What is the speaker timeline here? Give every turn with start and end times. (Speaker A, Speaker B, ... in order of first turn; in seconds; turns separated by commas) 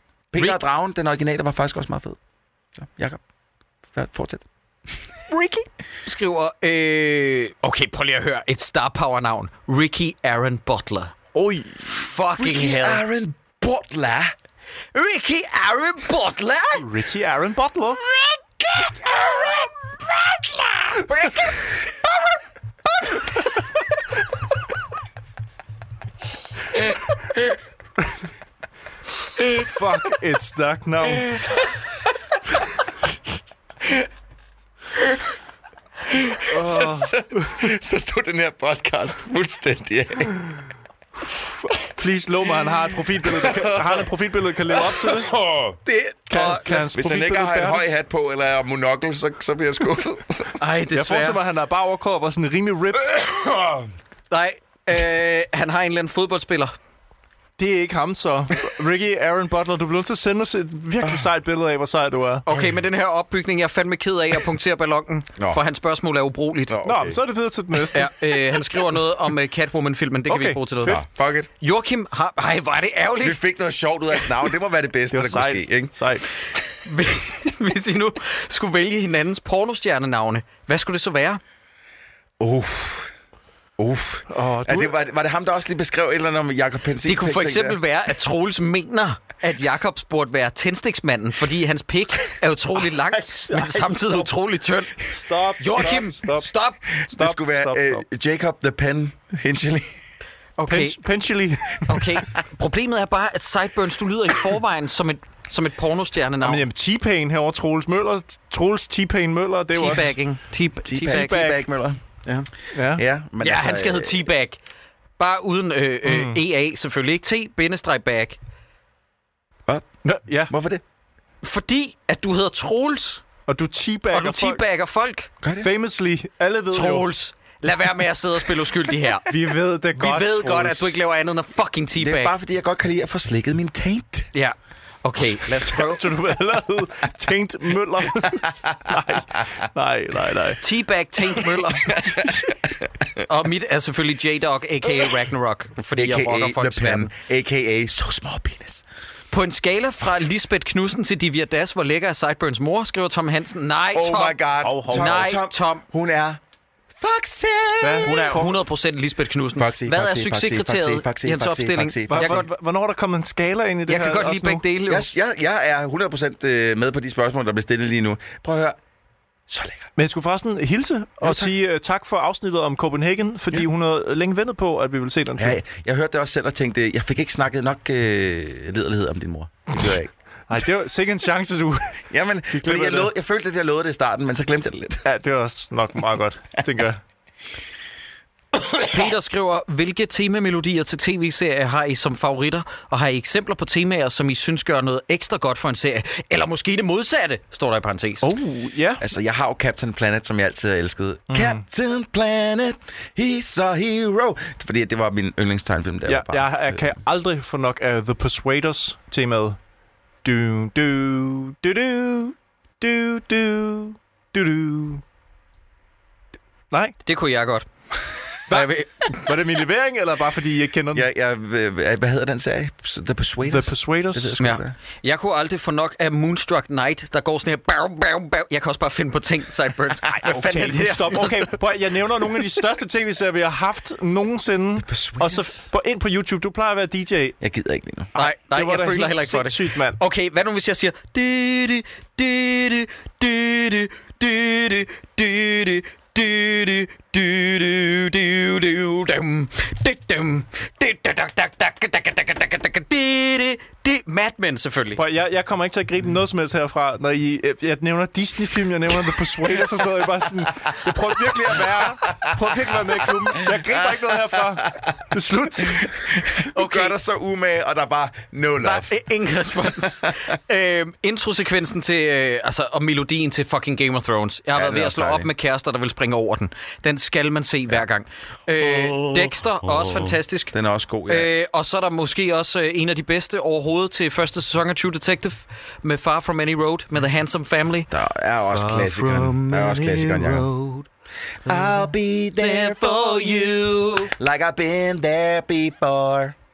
Speaker A: 0.3-2.2, Speaker A: 2.8-3.2, Speaker A: 3.9-4.5, Speaker B: 5.3-11.2, Speaker C: 11.3-11.9, Speaker B: 11.8-13.1, Speaker A: 12.4-14.3, Speaker B: 14.9-16.9, Speaker C: 16.8-18.0, Speaker A: 18.6-21.8, Speaker A: 29.4-29.7, Speaker C: 29.6-31.4, Speaker A: 31.3-31.6, Speaker A: 33.8-34.1, Speaker A: 36.1-40.7, Speaker C: 36.5-37.6, Speaker C: 41.6-45.4, Speaker A: 43.2-44.0, Speaker A: 44.7-45.8, Speaker B: 45.9-46.6, Speaker C: 46.3-47.8, Speaker A: 46.3-50.5, Speaker B: 50.6-51.4, Speaker C: 50.9-53.3, Speaker A: 53.1-53.9, Speaker B: 54.3-56.7, Speaker C: 57.6-62.4, Speaker A: 61.0-61.3, Speaker B: 62.4-66.7, Speaker A: 62.5-62.8, Speaker A: 65.4-65.6, Speaker A: 66.7-67.2, Speaker C: 66.8-68.2, Speaker B: 67.9-71.0, Speaker C: 70.3-71.0, Speaker A: 70.8-71.5, Speaker B: 71.6-73.4, Speaker A: 73.2-75.9, Speaker C: 75.1-76.3, Speaker B: 76.8-81.4, Speaker A: 82.4-83.1, Speaker A: 83.8-87.8, Speaker C: 84.3-85.0, Speaker B: 87.0-96.8, Speaker C: 92.8-94.3, Speaker C: 95.0-96.5, Speaker A: 96.9-100.0, Speaker C: 97.1-98.0, Speaker B: 100.6-101.0, Speaker C: 100.7-102.2, Speaker B: 101.9-106.6, Speaker C: 106.4-110.2, Speaker B: 109.7-111.5, Speaker A: 110.8-112.0, Speaker C: 111.0-111.6, Speaker C: 112.7-113.0, Speaker A: 112.9-114.3, Speaker B: 113.4-114.6, Speaker B: 115.2-118.4, Speaker C: 116.0-116.4, Speaker A: 119.7-120.0, Speaker C: 120.0-120.5, Speaker A: 120.5-120.8, Speaker B: 121.4-123.2, Speaker C: 123.5-124.6, Speaker B: 124.1-125.3, Speaker A: 125.4-125.7, Speaker C: 125.6-127.1, Speaker B: 126.7-129.3, Speaker C: 129.3-130.9, Speaker B: 129.9-132.3, Speaker A: 131.9-134.3, Speaker B: 134.3-136.0, Speaker C: 135.6-140.6, Speaker A: 138.5-139.0, Speaker B: 140.6-142.1, Speaker A: 141.9-143.2, Speaker B: 143.2-147.1, Speaker A: 145.9-148.8, Speaker B: 149.3-155.8, Speaker A: 153.9-156.4, Speaker C: 154.6-155.3, Speaker A: 156.9-158.4, Speaker C: 157.8-158.6, Speaker B: 158.0-162.4, Speaker A: 159.6-162.4, Speaker C: 162.1-164.6, Speaker B: 163.9-165.1, Speaker A: 164.9-168.8, Speaker A: 169.5-169.9, Speaker C: 169.9-175.6, Speaker A: 171.2-171.5, Speaker A: 175.4-180.1, Speaker C: 180.5-183.1, Speaker A: 182.1-185.1, Speaker C: 185.1-187.0, Speaker B: 188.8-198.3, Speaker C: 198.2-199.0, Speaker A: 199.0-206.9, Speaker C: 201.3-201.6, Speaker C: 206.1-209.6, Speaker C: 210.2-215.0, Speaker C: 216.7-217.0, Speaker B: 217.1-217.6, Speaker B: 218.5-219.3, Speaker C: 218.5-221.1, Speaker A: 220.9-224.7, Speaker C: 223.4-224.4, Speaker B: 224.4-231.6, Speaker C: 230.2-237.3, Speaker A: 234.8-235.7, Speaker A: 237.4-238.1, Speaker C: 238.1-240.0, Speaker B: 238.2-255.0, Speaker C: 255.0-265.9, Speaker A: 262.1-264.8, Speaker A: 265.6-269.0, Speaker B: 266.5-267.0, Speaker B: 268.6-280.5, Speaker A: 269.6-270.2, Speaker A: 274.5-275.3, Speaker A: 278.6-281.3, Speaker B: 281.1-287.9, Speaker A: 287.9-290.5, Speaker B: 288.5-290.9, Speaker A: 291.4-296.4, Speaker B: 291.5-294.1